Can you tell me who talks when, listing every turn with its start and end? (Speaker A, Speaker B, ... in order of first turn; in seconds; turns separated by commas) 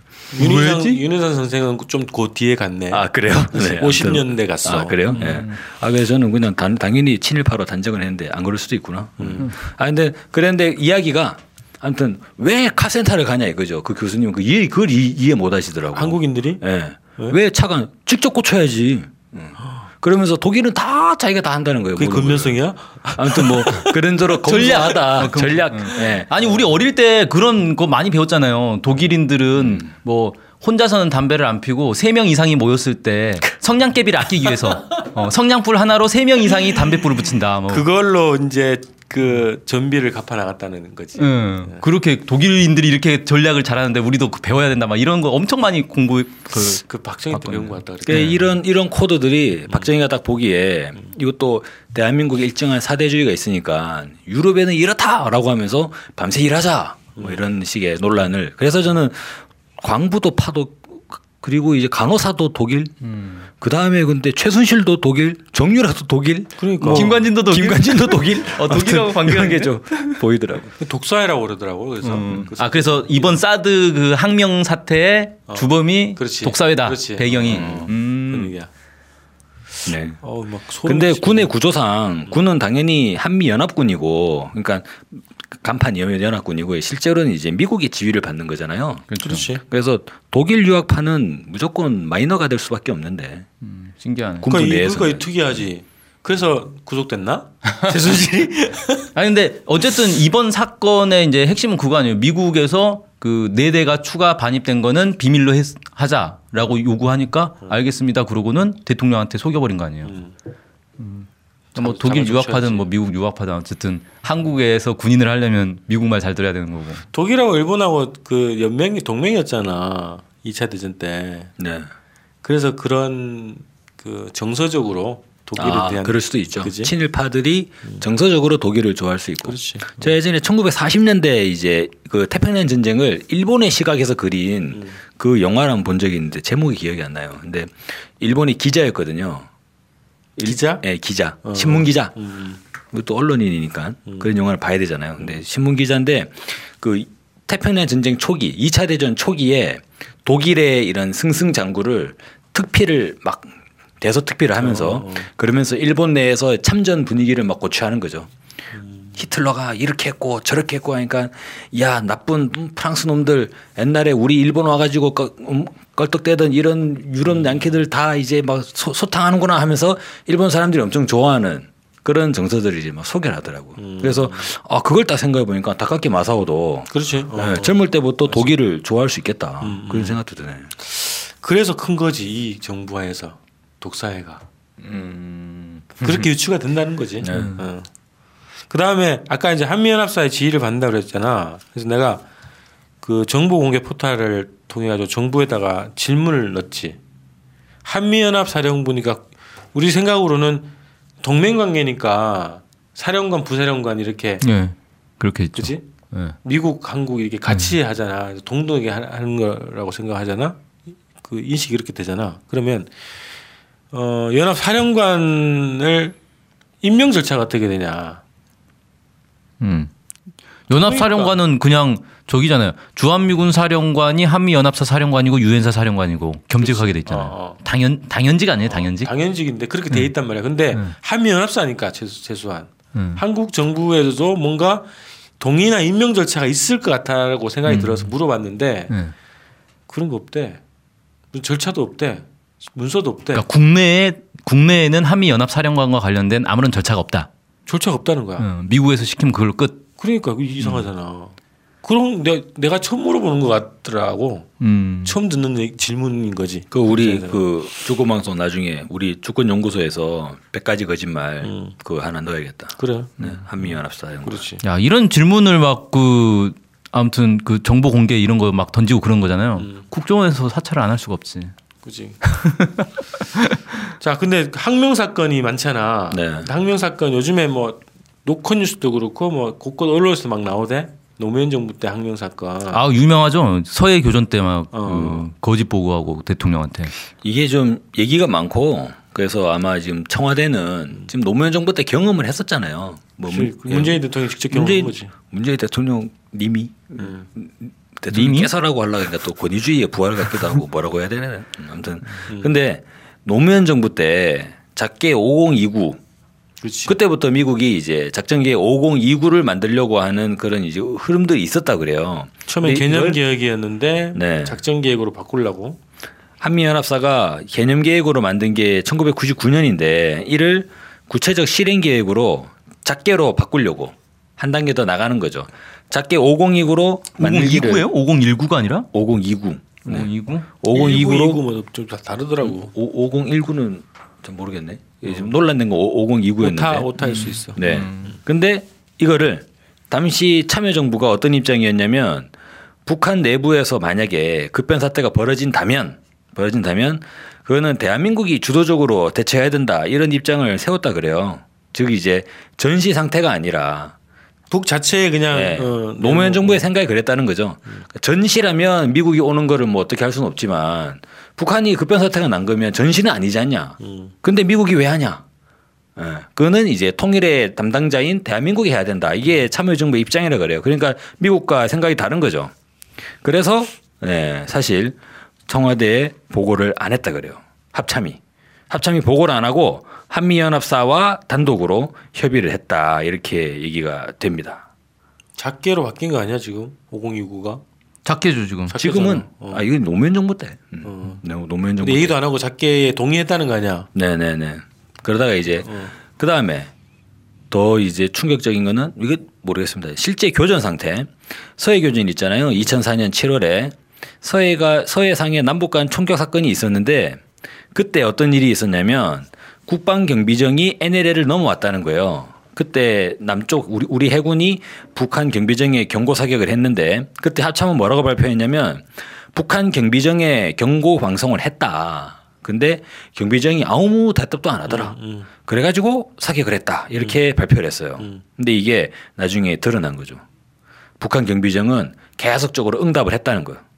Speaker A: 0.3-5.3, Speaker B: 0.4-1.0, Speaker C: 2.9-22.6, Speaker B: 5.1-5.5, Speaker A: 9.2-9.5, Speaker A: 15.9-16.6, Speaker A: 22.0-24.0, Speaker C: 23.1-26.3, Speaker B: 24.4-37.9, Speaker C: 29.6-29.9, Speaker A: 37.7-41.8, Speaker B: 41.2-48.5, Speaker A: 46.8-48.4, Speaker C: 48.1-63.0, Speaker A: 57.2-57.4, Speaker B: 63.0-63.5, Speaker C: 63.6-70.7, Speaker A: 66.6-67.1, Speaker B: 66.9-70.2, Speaker A: 70.8-73.4, Speaker B: 72.0-78.5, Speaker A: 75.5-78.7, Speaker C: 77.5-77.9, Speaker C: 79.9-80.2, Speaker A: 80.2-81.5, Speaker C: 80.8-89.1, Speaker B: 89.1-89.5, Speaker A: 89.2-89.6, Speaker C: 89.6-93.5, Speaker B: 93.6-94.5, Speaker C: 94.4-95.3, Speaker A: 94.5-99.1, Speaker B: 99.2-110.1, Speaker A: 110.0-110.3, Speaker B: 111.0-117.0, Speaker A: 111.8-112.9, Speaker A: 117.1-121.5, Speaker C: 121.6-121.9, Speaker A: 122.4-126.9, Speaker C: 125.6-139.5, Speaker A: 129.4-130.1, Speaker A: 134.7-135.0, Speaker A: 140.4-140.8, Speaker C: 140.4-142.1, Speaker A: 141.4-142.6, Speaker C: 142.9-158.3, Speaker A: 154.6-155.3, Speaker A: 158.7-159.2, Speaker C: 159.2-180.7, Speaker A: 173.8-174.5, Speaker A: 176.9-177.8, Speaker A: 179.6-180.2, Speaker A: 180.8-184.4, Speaker B: 184.8-186.3, Speaker A: 186.0-187.9, Speaker C: 187.2-187.6, Speaker B: 187.3-187.6, Speaker A: 188.7-192.2, Speaker A: 193.0-197.0, Speaker A: 197.8-204.4, Speaker B: 204.4-206.4, Speaker A: 205.6-205.8, Speaker A: 206.4-210.6, Speaker B: 207.5-207.8, Speaker A: 211.2-213.3, Speaker A: 213.9-216.2, Speaker A: 216.8-218.2, Speaker B: 219.6-219.9, Speaker B: 220.7-229.1, Speaker A: 220.7-221.4, Speaker A: 226.6-227.6, Speaker A: 228.7-238.9, Speaker B: 232.9-233.2, Speaker B: 237.7-238.1, Speaker A: 239.9-240.6, Speaker A: 241.3-243.5, Speaker B: 243.3-247.3, Speaker A: 247.7-248.5, Speaker B: 248.4-249.8, Speaker A: 250.0-254.5, Speaker B: 254.6-255.2, Speaker A: 255.0-257.8, Speaker C: 256.7-264.4, Speaker A: 261.4-261.7, Speaker A: 262.8-263.1, Speaker A: 264.2-264.6, Speaker B: 264.6-271.5, Speaker A: 269.6-269.8, Speaker A: 271.8-272.2, Speaker B: 272.2-273.6, Speaker A: 274.0-282.8, Speaker C: 276.1-276.5, Speaker B: 282.7-286.9, Speaker A: 284.7-285.3, Speaker C: 287.2-306.0, Speaker A: 293.3-295.1, Speaker A: 297.0-297.3, Speaker B: 298.1-298.5, Speaker A: 306.6-307.0, Speaker C: 306.9-313.2, Speaker A: 312.5-315.8, Speaker C: 314.1-314.6, Speaker C: 316.4-327.9, Speaker B: 327.2-328.9, Speaker C: 328.9-330.1, Speaker B: 329.8-330.5, Speaker C: 330.6-331.4, Speaker A: 330.7-332.7, Speaker C: 332.4-336.9, Speaker A: 335.0-335.3, Speaker A: 336.4-338.1, Speaker B: 337.0-338.1, Speaker C: 337.6-342.3, Speaker C: 342.9-353.9, Speaker A: 354.5-356.6, Speaker C: 355.3-365.2, Speaker A: 363.8-364.1, Speaker C: 366.0-372.5, Speaker C: 373.2-375.0, Speaker C: 375.5-378.2, Speaker C: 378.7-384.6, Speaker A: 385.4-387.6, Speaker B: 388.1-388.8, Speaker A: 388.7-389.6, Speaker C: 388.7-392.2, Speaker A: 390.8-391.2, Speaker A: 391.8-393.9, Speaker C: 393.9-396.7, Speaker A: 395.6-395.9, Speaker C: 397.5-430.2, Speaker A: 424.7-425.3, Speaker C: 431.0-433.6